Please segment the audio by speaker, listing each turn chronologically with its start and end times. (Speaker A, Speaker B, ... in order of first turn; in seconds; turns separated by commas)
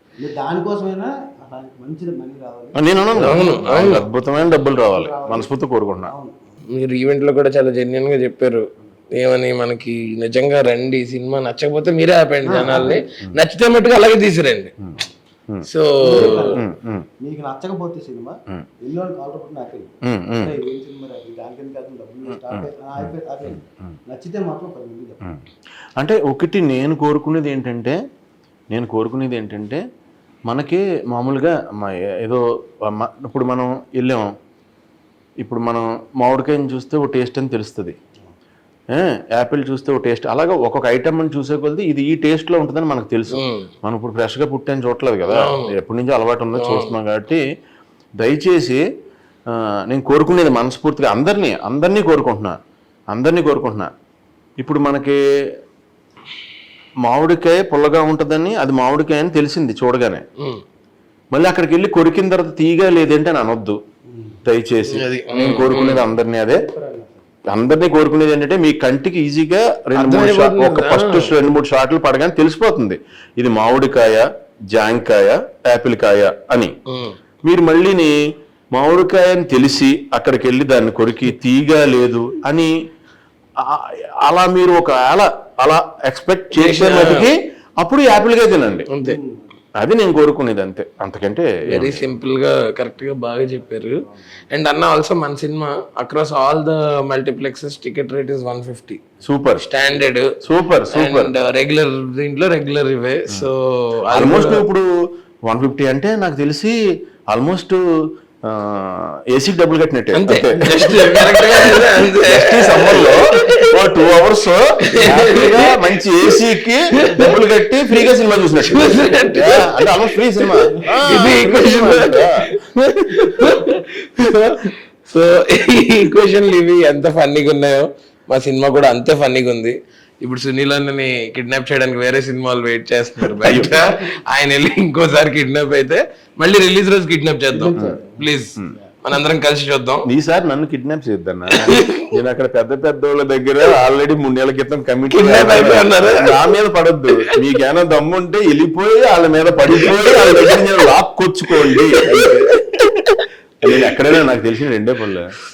Speaker A: 0.2-5.5, Speaker B: 2.8-6.1, Speaker C: 3.1-4.1, Speaker A: 6.1-6.4, Speaker C: 6.7-14.7, Speaker A: 12.4-13.0, Speaker B: 15.5-17.1, Speaker C: 15.7-16.6, Speaker A: 16.0-16.6, Speaker A: 17.2-25.3, Speaker B: 20.1-20.6, Speaker B: 22.3-23.9, Speaker B: 26.0-28.0, Speaker B: 28.7-29.8, Speaker B: 30.5-34.3, Speaker B: 35.4-38.0, Speaker B: 38.9-47.4, Speaker C: 43.3-43.7, Speaker C: 45.3-45.7, Speaker C: 46.6-47.0, Speaker B: 48.2-48.8, Speaker B: 49.5-52.6, Speaker B: 53.1-53.9, Speaker B: 54.6-55.2, Speaker B: 57.0-60.2, Speaker B: 61.3-63.8, Speaker A: 64.1-64.4, Speaker B: 64.5-66.6, Speaker C: 64.9-66.1, Speaker A: 66.5-67.3, Speaker B: 67.5-76.7, Speaker C: 70.0-71.3, Speaker C: 76.9-77.2, Speaker B: 77.5-78.2, Speaker B: 78.7-82.7, Speaker B: 83.6-88.9, Speaker C: 86.5-87.3, Speaker C: 88.9-89.2, Speaker A: 89.0-89.6, Speaker B: 89.8-92.0, Speaker C: 91.7-99.0, Speaker A: 94.1-94.4, Speaker B: 99.2-99.7, Speaker C: 99.6-100.4, Speaker B: 100.4-101.3, Speaker C: 100.9-104.7, Speaker B: 104.1-104.9, Speaker B: 105.5-106.8, Speaker B: 107.3-107.8, Speaker B: 108.5-122.4, Speaker C: 110.1-113.9, Speaker A: 110.5-111.9, Speaker C: 114.9-116.4, Speaker C: 117.0-117.4, Speaker C: 117.9-140.1, Speaker B: 133.3-133.8, Speaker A: 133.5-134.1, Speaker A: 137.5-139.0, Speaker B: 140.1-152.9, Speaker C: 141.6-142.0, Speaker C: 145.1-146.5, Speaker C: 149.8-150.6, Speaker C: 151.6-154.2, Speaker B: 153.6-155.3